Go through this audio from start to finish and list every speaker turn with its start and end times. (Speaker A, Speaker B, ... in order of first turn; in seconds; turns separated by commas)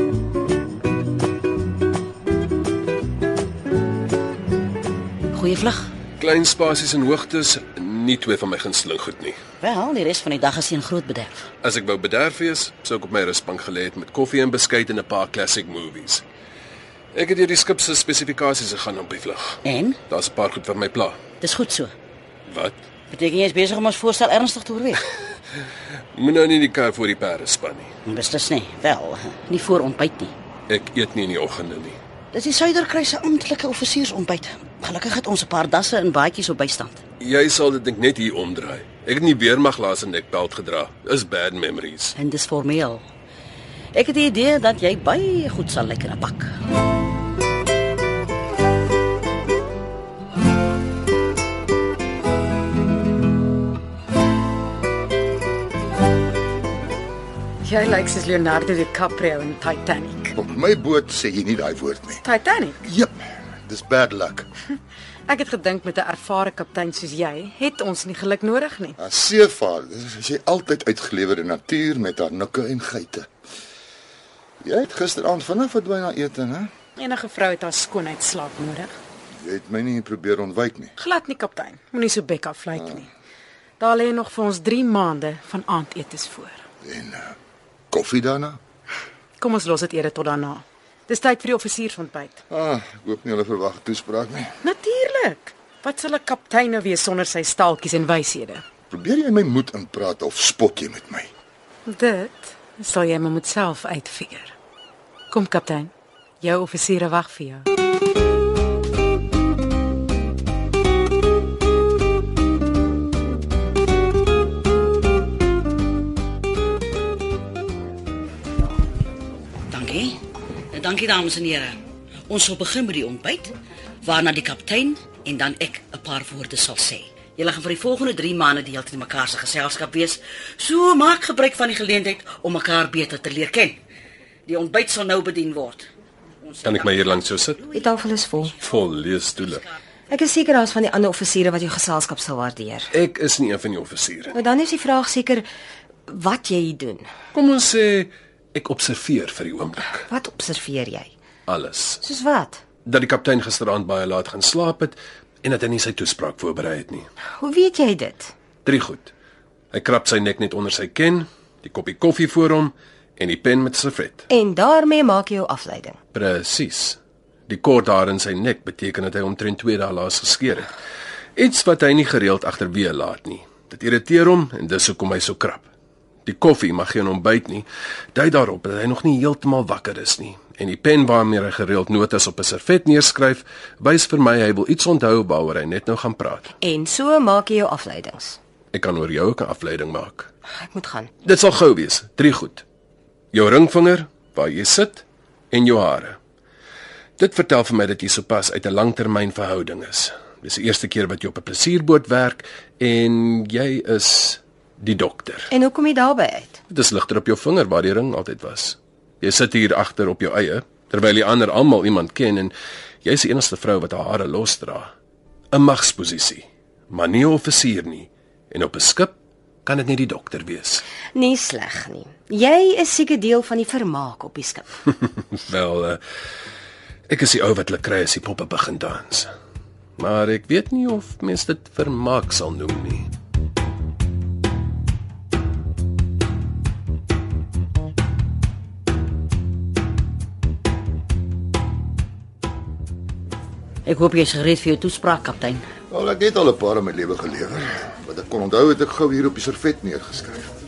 Speaker A: 5.3-5.9, Speaker B: 6.2-9.4, Speaker A: 9.6-11.5, Speaker B: 11.6-16.2, Speaker B: 17.1-21.2, Speaker A: 19.6-20.0, Speaker A: 21.4-21.9, Speaker B: 22.5-22.8, Speaker A: 23.1-25.1, Speaker B: 26.1-27.9, Speaker A: 28.1-30.3, Speaker B: 30.7-32.0, Speaker A: 32.3-37.0, Speaker B: 37.2-42.2, Speaker A: 42.2-43.0, Speaker A: 43.9-46.5, Speaker C: 57.6-60.3, Speaker D: 60.4-62.2, Speaker C: 62.2-62.8, Speaker D: 62.8-64.5, Speaker C: 65.3-69.0, Speaker D: 69.0-73.3, Speaker D: 74.6-76.7, Speaker C: 77.0-79.0, Speaker D: 79.4-80.9, Speaker C: 81.0-83.1, Speaker C: 83.8-86.6, Speaker D: 86.8-87.3, Speaker D: 87.9-88.6, Speaker C: 89.4-92.4, Speaker D: 92.5-94.5, Speaker C: 94.6-98.6, Speaker D: 98.9-101.3, Speaker C: 101.9-104.5, Speaker C: 105.3-107.7, Speaker A: 119.7-120.2, Speaker A: 120.7-121.8, Speaker A: 122.3-133.8, Speaker A: 134.5-135.9, Speaker A: 136.4-137.8, Speaker B: 136.6-137.6, Speaker E: 137.7-138.5, Speaker B: 138.6-139.6, Speaker E: 140.1-142.9, Speaker B: 142.9-144.4, Speaker E: 144.3-145.5, Speaker E: 146.1-147.1, Speaker B: 147.3-150.1, Speaker E: 150.1-151.1, Speaker B: 151.5-152.0, Speaker E: 152.0-152.6, Speaker B: 152.8-157.1, Speaker E: 157.4-158.3, Speaker B: 158.7-159.1, Speaker B: 159.7-164.2, Speaker E: 164.3-166.0, Speaker B: 166.1-170.7, Speaker B: 171.4-175.7, Speaker B: 176.2-186.5, Speaker E: 186.5-188.4, Speaker B: 188.7-190.3, Speaker E: 190.5-191.1, Speaker B: 191.2-192.6, Speaker B: 193.3-196.2, Speaker B: 197.2-205.5, Speaker E: 205.5-206.6, Speaker B: 206.7-212.5, Speaker B: 213.0-214.9, Speaker B: 215.5-220.8, Speaker E: 221.1-224.7, Speaker B: 225.3-226.0, Speaker B: 227.1-229.3, Speaker B: 230.0-233.1, Speaker A: 243.9-245.7, Speaker D: 245.9-250.5